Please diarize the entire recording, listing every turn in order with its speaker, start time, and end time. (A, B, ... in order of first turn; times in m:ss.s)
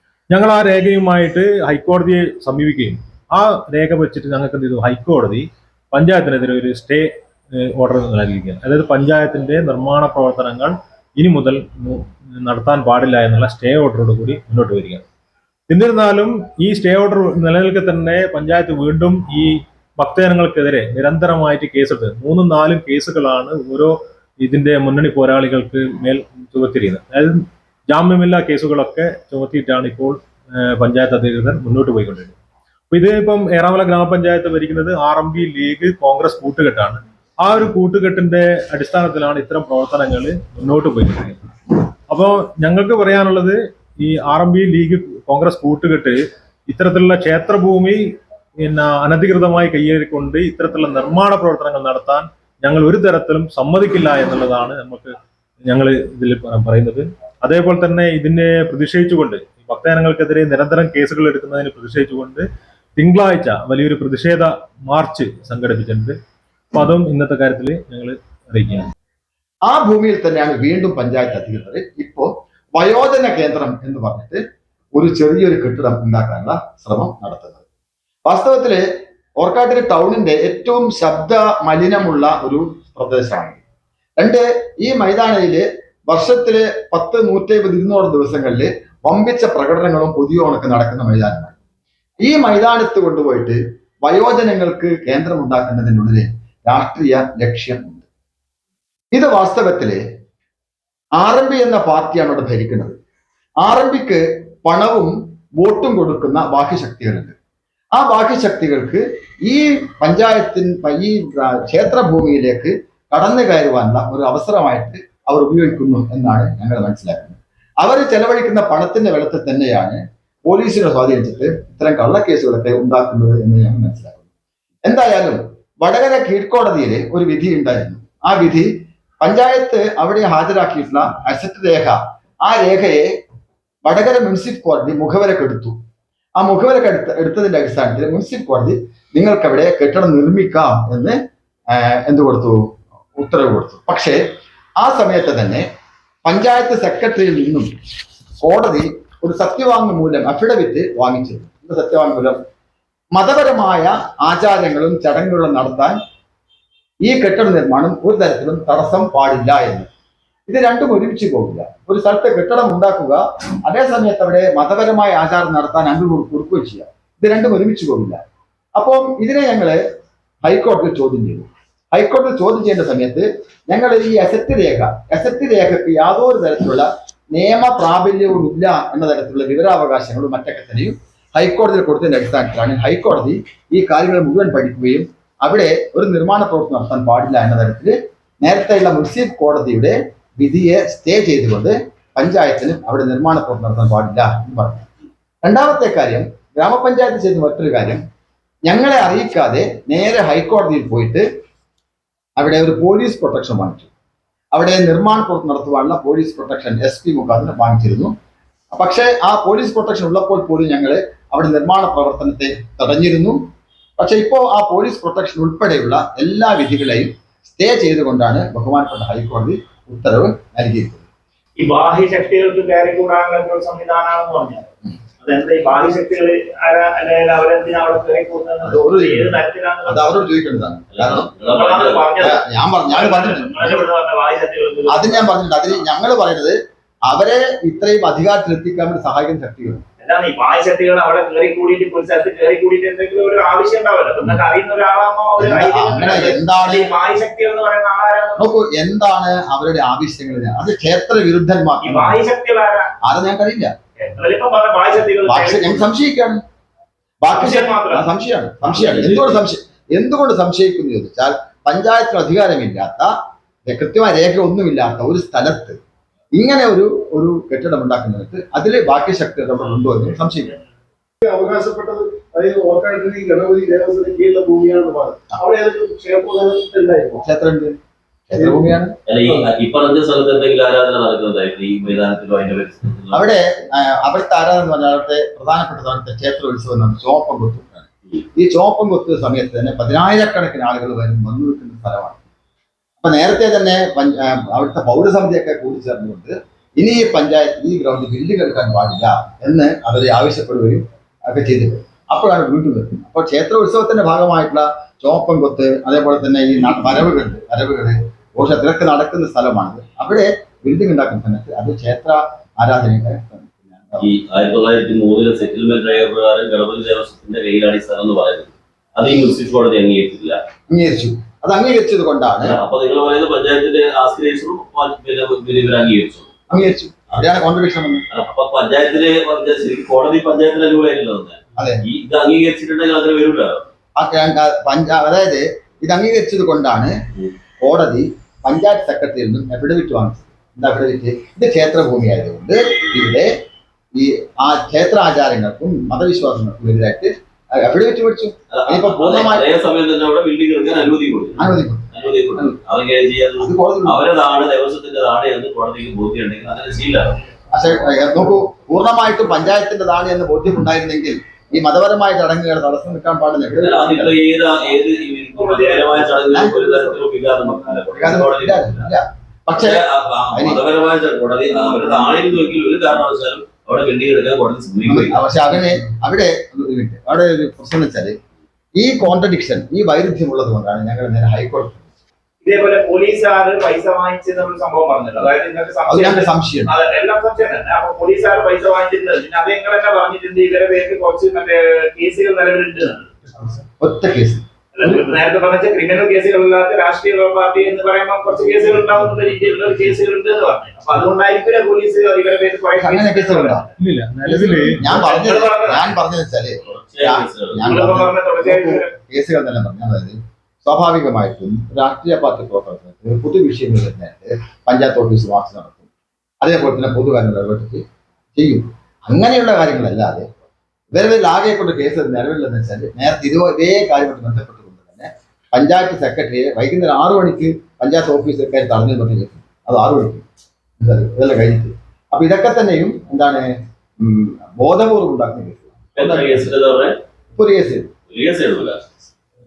0:00.3-0:07.1 A
0:07.7-0:15.0 A
0:15.7-0:32.3 A
0:32.9-0:41.4 A
0:42.1-0:48.0 A
0:48.6-1:06.2 A
1:06.7-1:08.8 A
1:09.6-1:14.4 B
1:14.9-1:17.6 B
1:18.2-1:18.8 B
1:19.4-1:23.6 B
1:24.2-1:31.5 B
1:32.2-1:38.0 B
1:39.1-1:40.0 B
1:41.2-1:43.0 B
1:43.6-1:47.3 B
1:47.9-2:04.2 B
2:04.8-2:08.7 B
2:09.2-2:13.1 B
2:13.8-2:15.7 B
2:16.4-2:21.2 B
2:21.7-2:22.6 B
2:23.2-2:24.2 B
2:24.8-2:25.6 B
2:26.2-2:27.7 B
2:28.4-2:32.4 B
2:33.1-2:36.0 B
2:37.0-2:39.9 B
2:40.5-2:48.2 B
2:48.8-2:49.8 B
2:50.4-3:14.8 B
3:15.4-3:18.0 B
3:18.7-3:21.2 B
3:22.4-3:23.9 B
3:24.5-3:28.1 B
3:28.7-3:33.4 B
3:34.0-3:41.0 B
3:41.6-3:44.6 C
3:45.2-3:50.3 C
3:48.6-3:51.2 B
3:50.9-3:52.2 D
3:51.4-3:55.3 C
3:52.2-3:53.8 B
3:54.9-3:59.8 B
4:00.0-4:08.4 C
4:05.4-4:06.9 B
4:08.4-4:12.2 B
4:11.8-4:12.9 C
4:13.0-4:13.7 B
4:14.0-4:15.9 C
4:15.2-4:16.4 B
4:17.2-4:23.1 B
4:17.3-4:18.1 C
4:18.6-4:19.4 D
4:23.6-4:25.8 B
4:26.3-4:30.5 B
4:31.2-4:37.2 E
4:37.2-4:37.7 B
4:38.3-4:38.9 B
4:38.3-4:38.6 E
4:39.1-4:43.3 D
4:43.1-4:52.2 B
4:53.0-5:14.1 B
5:14.0-5:20.4 D
5:20.7-5:22.6 B
5:22.4-5:26.3 D
5:26.5-5:28.0 B
5:28.1-5:33.6 D
5:31.6-5:31.8 B
5:34.0-5:37.0 B
5:37.6-5:43.3 B
5:44.0-5:49.5 B
5:48.5-5:57.2 D
5:51.4-5:52.5 B
5:53.4-5:54.0 B
5:57.5-6:04.2 B
6:03.6-6:08.9 D
6:05.4-6:06.0 C
6:06.3-6:06.9 B
6:07.9-6:10.6 B
6:09.5-6:15.2 D
6:14.8-6:18.2 B
6:18.8-6:21.8 B
6:22.4-6:33.1 C
6:25.9-6:26.7 B
6:33.6-6:35.0 B
6:34.8-6:43.6 C
6:42.8-6:43.6 B
6:43.8-6:44.8 A
6:44.2-6:55.8 B
6:44.8-6:45.9 C
6:46.6-6:47.6 D
6:47.6-6:48.9 C
6:56.4-6:57.8 B
6:58.4-7:00.2 B
7:00.9-7:10.2 B
7:10.8-7:13.5 B
7:14.0-7:16.5 B
7:16.0-7:16.9 D
7:17.3-7:17.9 B
7:18.1-7:18.8 D